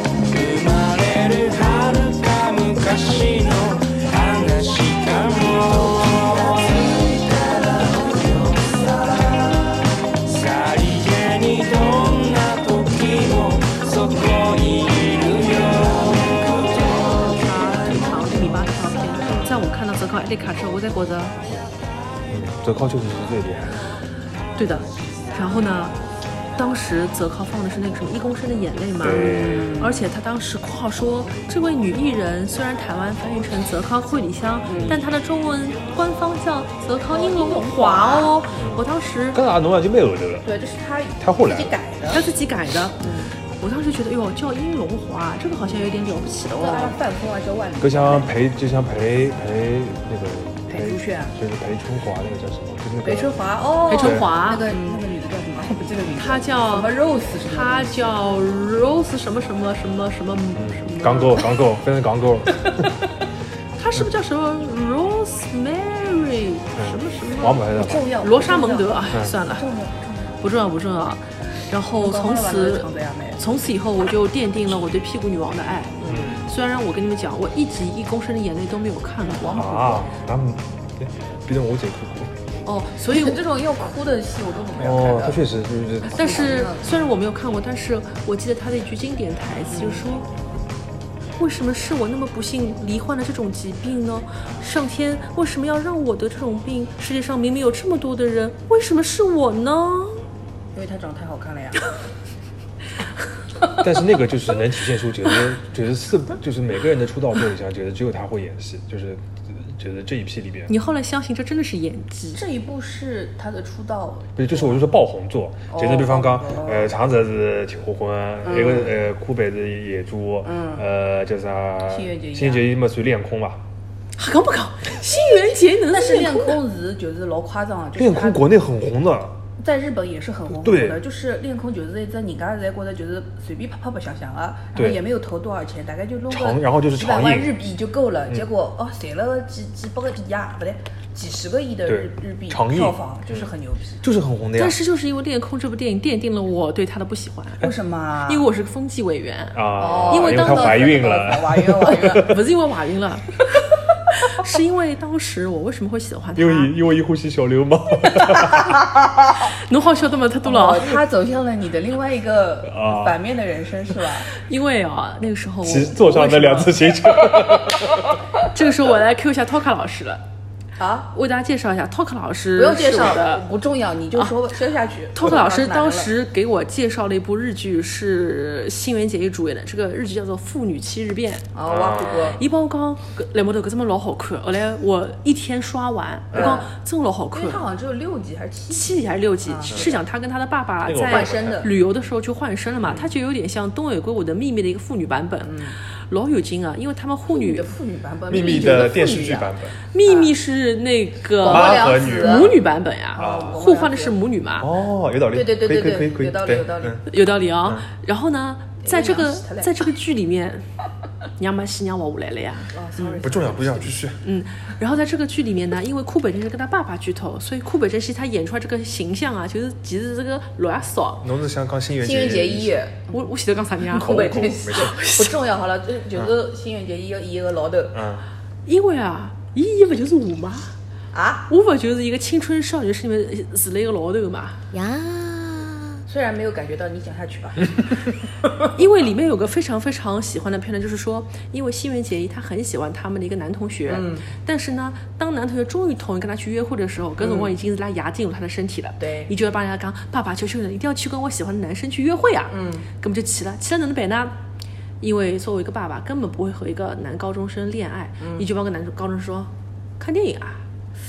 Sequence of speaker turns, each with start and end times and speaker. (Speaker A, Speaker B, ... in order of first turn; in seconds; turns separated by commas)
Speaker A: 0.2-7.2, Speaker A: 7.8-8.7, Speaker A: 10.2-16.2, Speaker B: 16.7-21.4, Speaker C: 19.2-19.5, Speaker C: 22.3-23.8, Speaker B: 24.6-25.9, Speaker B: 26.6-39.4, Speaker C: 29.0-29.8, Speaker D: 29.1-30.0, Speaker D: 34.7-35.0, Speaker C: 34.7-35.0, Speaker D: 37.1-38.4, Speaker C: 38.5-38.8, Speaker C: 39.3-40.5, Speaker D: 40.4-42.3, Speaker C: 41.2-41.8, Speaker B: 42.1-47.0, Speaker D: 43.0-43.3, Speaker D: 46.6-48.3, Speaker C: 47.8-53.3, Speaker D: 50.7-51.3, Speaker D: 53.0-58.2, Speaker B: 53.9-54.8, Speaker C: 53.9-54.3, Speaker B: 56.2-61.2, Speaker C: 60.5-62.9, Speaker D: 61.0-61.4, Speaker D: 62.5-63.0, Speaker B: 63.8-69.7, Speaker C: 66.8-68.0, Speaker D: 67.7-70.4, Speaker B: 70.4-80.0, Speaker D: 72.0-73.4, Speaker D: 76.0-76.4, Speaker C: 76.0-76.4, Speaker D: 79.3-80.1, Speaker C: 79.5-82.3, Speaker B: 82.6-83.4, Speaker D: 83.1-85.4, Speaker C: 84.8-86.4, Speaker D: 86.0-86.9, Speaker B: 86.0-90.3, Speaker D: 89.7-90.1, Speaker B: 91.4-100.2, Speaker D: 100.7-101.8, Speaker C: 103.8-110.7, Speaker B: 110.7-112.4, Speaker D: 112.3-114.8, Speaker C: 114.4-123.6, Speaker D: 115.7-116.9, Speaker D: 118.4-118.9, Speaker D: 120.4-120.8, Speaker D: 121.9-122.7, Speaker B: 124.2-126.6, Speaker D: 125.2-128.4, Speaker C: 128.0-129.3, Speaker D: 129.6-144.0, Speaker C: 130.5-131.0, Speaker C: 134.8-135.0, Speaker C: 136.3-137.5, Speaker C: 141.9-143.5, Speaker C: 144.0-144.8, Speaker B: 144.6-147.7, Speaker D: 147.6-148.5, Speaker B: 148.3-150.9, Speaker C: 149.5-152.4, Speaker D: 149.8-152.4, Speaker B: 152.1-153.5, Speaker B: 154.1-156.7, Speaker C: 156.3-158.7, Speaker D: 158.2-158.6, Speaker B: 159.4-161.0, Speaker D: 160.4-164.3, Speaker C: 162.7-163.2, Speaker B: 164.3-166.8, Speaker C: 165.6-168.1, Speaker B: 168.4-170.2, Speaker D: 170.8-171.1, Speaker B: 171.1-173.4, Speaker D: 172.6-176.1, Speaker B: 175.1-181.5, Speaker D: 181.5-182.4, Speaker C: 181.6-182.4, Speaker B: 182.3-187.7, Speaker C: 186.3-186.6, Speaker D: 186.3-186.7, Speaker D: 187.3-190.0, Speaker B: 188.7-197.7, Speaker C: 190.8-191.6, Speaker D: 191.1-191.7, Speaker C: 192.8-193.1, Speaker D: 195.4-195.8, Speaker D: 197.3-199.5, Speaker C: 198.3-199.8, Speaker B: 198.4-198.9, Speaker B: 199.9-204.7, Speaker D: 200.0-200.3, Speaker D: 201.4-202.6, Speaker C: 201.4-202.5, Speaker D: 203.1-204.2, Speaker C: 203.2-203.6, Speaker C: 204.6-207.0, Speaker D: 205.3-207.1, Speaker B: 207.1-210.6, Speaker D: 208.8-209.9, Speaker B: 211.4-212.7, Speaker D: 212.7-214.0, Speaker C: 213.2-214.2, Speaker B: 214.2-221.2, Speaker C: 221.2-222.8, Speaker D: 222.0-223.1, Speaker B: 223.1-225.3, Speaker C: 223.9-225.0, Speaker D: 223.9-228.0, Speaker C: 227.9-228.2, Speaker B: 228.7-230.7, Speaker D: 231.1-231.5, Speaker B: 231.5-234.6, Speaker D: 236.1-238.6, Speaker B: 238.7-254.3, Speaker D: 243.9-244.3, Speaker D: 247.2-247.5, Speaker D: 249.0-249.3, Speaker D: 252.5-252.9, Speaker B: 255.0-260.6, Speaker D: 258.2-258.5